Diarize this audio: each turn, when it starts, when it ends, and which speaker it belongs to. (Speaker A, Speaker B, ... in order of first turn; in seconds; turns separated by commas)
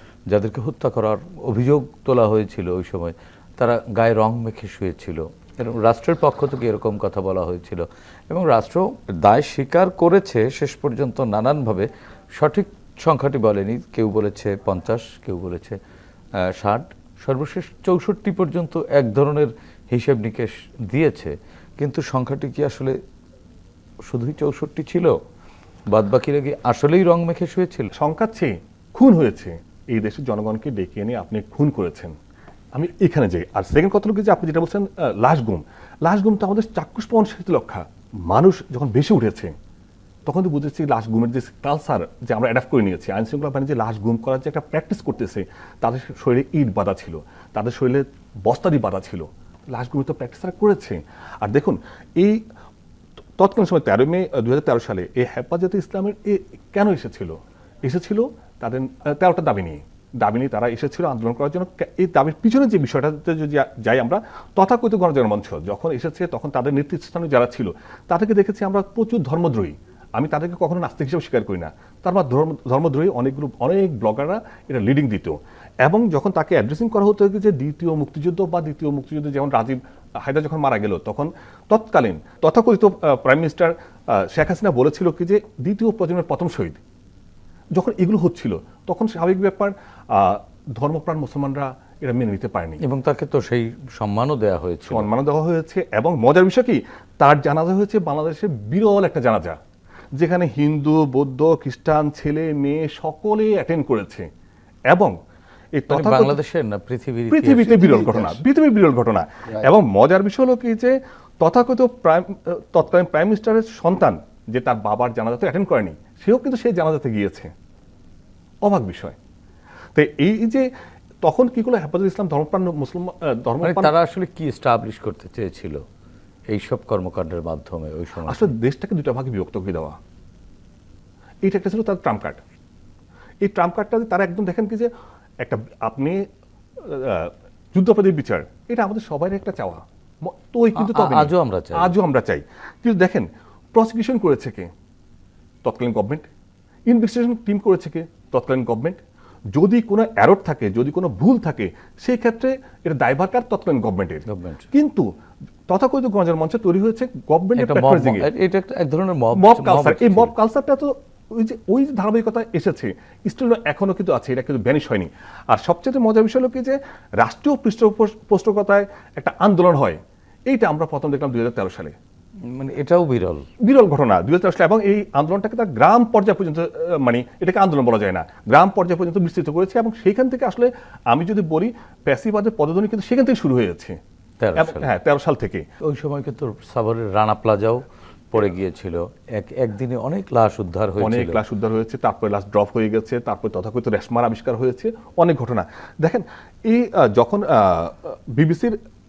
Speaker A: 0.3-15.8, Speaker A: 16.4-23.0, Speaker A: 24.1-25.2, Speaker A: 25.9-27.9, Speaker B: 27.9-32.2, Speaker B: 32.8-39.5, Speaker B: 40.3-52.4, Speaker B: 53.4-86.8, Speaker B: 87.8-92.8, Speaker A: 92.8-95.1, Speaker B: 94.9-99.6, Speaker B: 100.2-104.3, Speaker B: 105.8-106.4, Speaker A: 105.9-108.3, Speaker B: 107.3-117.5, Speaker B: 118.6-119.2, Speaker B: 120.0-120.7, Speaker B: 121.2-123.9, Speaker A: 123.6-125.8, Speaker A: 126.5-128.5, Speaker B: 128.3-130.0, Speaker B: 131.4-132.4, Speaker B: 133.4-134.9, Speaker B: 135.4-136.2, Speaker B: 136.8-144.7, Speaker A: 140.8-142.0, Speaker B: 145.6-146.3, Speaker B: 146.9-149.0, Speaker B: 149.5-155.1, Speaker A: 154.3-154.7, Speaker B: 155.7-158.3, Speaker A: 157.6-160.3, Speaker B: 159.4-172.0, Speaker A: 172.4-173.5, Speaker B: 173.6-184.0, Speaker A: 184.4-184.9, Speaker B: 184.6-185.7, Speaker A: 185.8-191.4, Speaker B: 191.0-198.8